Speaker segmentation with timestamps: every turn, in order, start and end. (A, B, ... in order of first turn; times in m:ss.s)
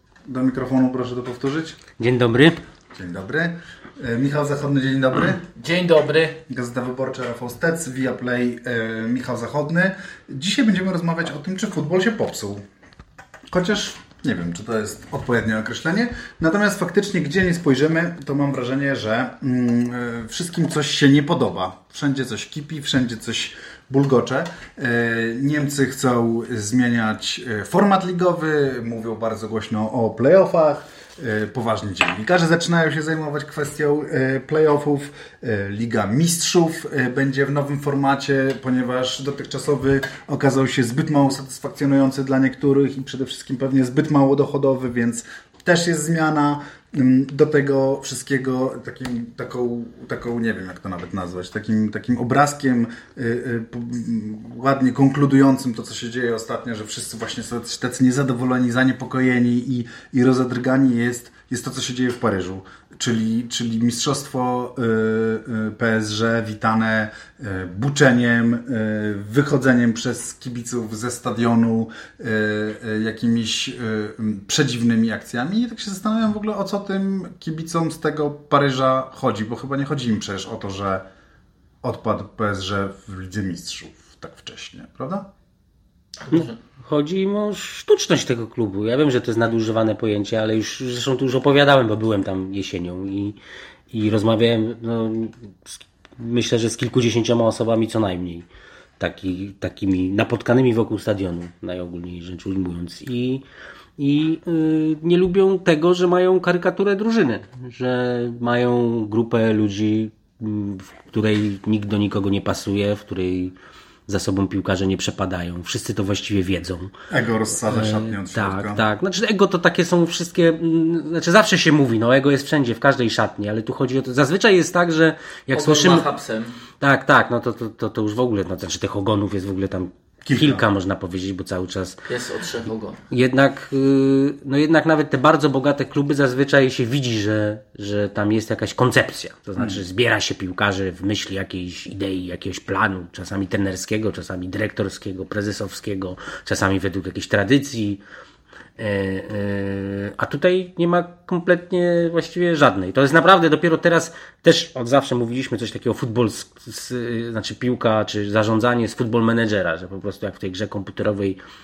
0:00.2-0:01.8 A
0:02.0-0:02.6 B
0:02.9-0:05.4 A
0:05.5-0:06.4 C
0:06.5-0:12.6 A
0:13.5-1:21.0 A
1:21.8-1:25.3 A
1:26.2-1:26.6 C
1:26.3-1:33.4 B
1:33.9-1:38.4 B
1:39.0-1:43.4 B
1:44.0-1:53.5 B
1:54.1-1:56.9 B
1:57.1-1:58.8 A
1:57.7-2:06.1 B
2:05.5-2:06.6 C
2:06.8-2:12.0 B
2:10.2-2:10.6 A
2:12.1-2:13.0 C
2:13.1-2:28.0 B
2:28.8-2:41.4 B